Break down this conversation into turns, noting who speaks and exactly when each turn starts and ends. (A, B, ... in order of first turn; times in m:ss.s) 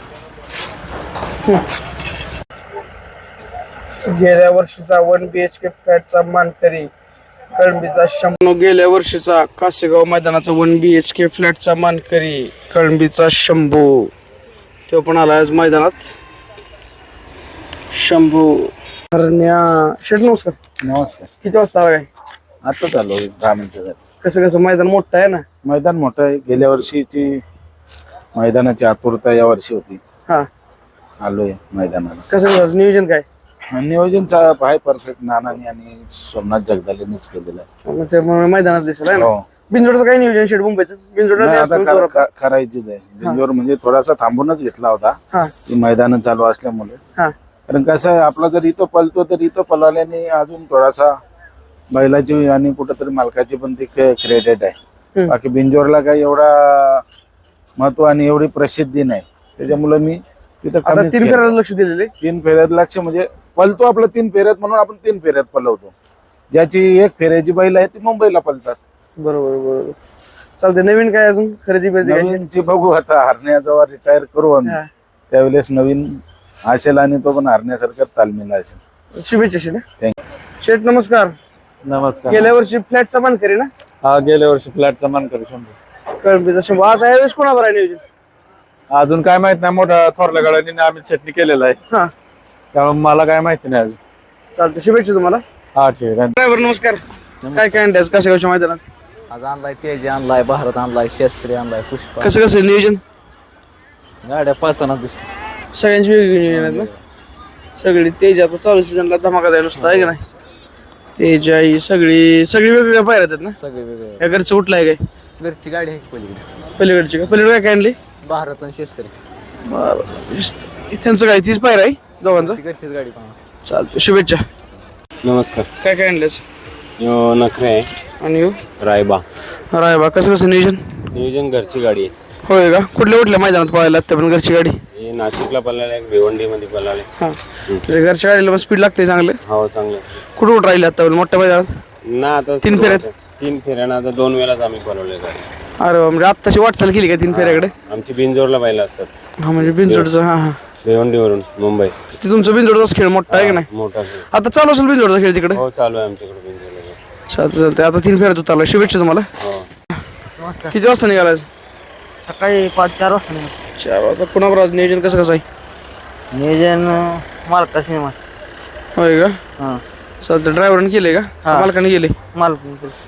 0:04.1-0:06.9 A
0:07.6-0:14.1 A
0:14.9-0:16.1 A
0:17.9-0:20.6 A
0:20.8-0:21.3 B
0:21.4-0:22.1 A
0:22.6-0:24.0 B
0:24.2-0:25.4 A
0:25.6-0:27.4 B
0:28.4-0:30.0 B
0:31.2-0:32.2 B
0:32.3-0:33.3 A
0:33.7-0:37.7 B
0:37.9-0:42.2 A
0:39.1-0:39.4 B
0:41.4-0:47.0 B
0:47.7-0:51.1 B
0:51.9-0:54.8 B
0:55.3-0:57.0 B
0:57.8-1:01.5 B
1:00.9-1:02.1 A
1:02.2-1:05.9 B
1:06.5-1:08.8 B
1:09.2-1:10.0 A
1:10.6-1:12.4 A
1:12.0-1:16.1 B
1:16.7-1:18.8 B
1:19.2-1:19.8 A
1:20.6-1:21.3 A
1:21.9-1:22.5 C
1:22.3-1:23.7 A
1:24.0-1:25.7 C
1:26.1-1:28.0 A
1:28.9-1:31.8 C
1:32.7-1:34.0 C
1:34.6-1:35.4 A
1:35.8-1:36.3 C
1:36.4-1:37.0 A
1:37.4-1:37.8 D
1:37.6-1:38.8 A
1:39.3-1:42.4 D
1:42.2-1:43.0 A
1:44.2-1:45.3 D
1:45.7-1:46.9 A
1:46.5-1:47.0 D
1:47.8-1:50.2 A
1:49.8-1:50.1 D
1:51.2-1:53.6 A
1:53.6-1:54.2 D
1:54.2-1:55.0 A
1:55.4-1:56.5 D
1:56.8-1:58.0 A
1:58.2-1:59.1 D
1:59.7-2:02.6 A
2:02.3-2:03.4 D
2:03.6-2:04.4 A
2:05.2-2:05.7 E
2:05.8-2:06.4 A
2:07.0-2:07.9 E
2:08.2-2:08.6 A
2:08.8-2:09.2 E
2:09.7-2:11.0 A
2:11.1-2:12.1 E
2:12.4-2:14.8 A
2:15.0-2:17.1 E
2:17.2-2:19.4 A
2:19.4-2:20.2 E
2:20.4-2:21.7 A
2:22.0-2:25.4 E
2:22.6-2:23.0 A
2:25.8-2:27.7 A
2:27.3-2:30.1 E
2:29.4-2:30.6 A
2:30.8-2:32.0 E
2:32.2-2:33.7 A
2:33.3-2:34.2 E
2:34.3-2:35.6 A
2:35.5-2:37.0 E
2:37.3-2:39.3 A
2:39.4-2:39.7 E
2:40.4-2:40.8 F
2:40.7-2:41.5 A
2:42.3-2:43.5 F
2:43.8-2:45.4 A
2:46.3-2:48.2 F
2:49.0-2:49.4 A
2:50.2-2:52.2 A
2:52.3-2:53.0 F